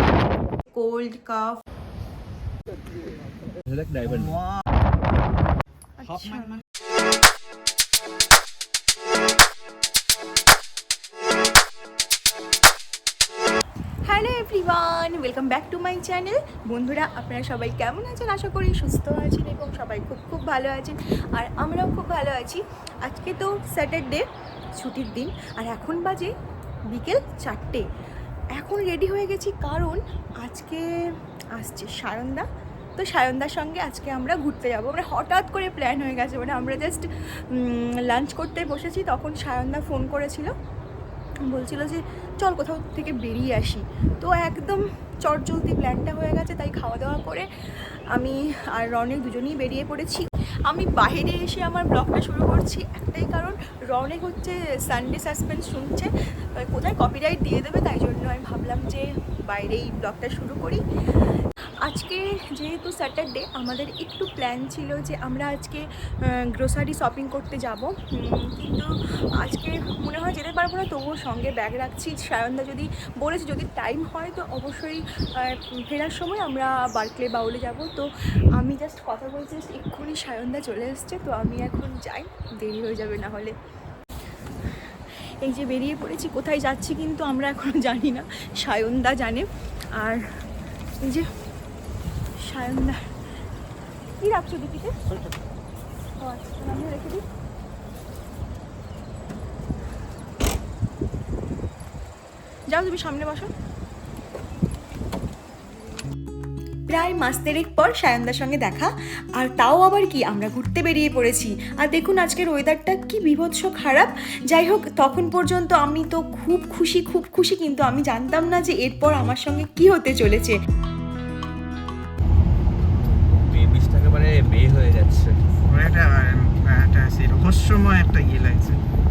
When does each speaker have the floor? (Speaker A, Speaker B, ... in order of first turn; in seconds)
Speaker A: 0.7-1.6, 6.0-6.5, 14.0-26.3, 26.9-27.9, 28.5-31.0, 31.5-40.5, 41.5-60.8, 61.8-83.5, 85.4-90.2, 91.0-91.3, 92.4-93.1, 94.2-95.0, 96.2-97.2, 102.7-103.5, 106.9-120.6
Speaker B: 3.6-4.4, 123.3-125.3
Speaker C: 6.1-6.6, 125.7-128.8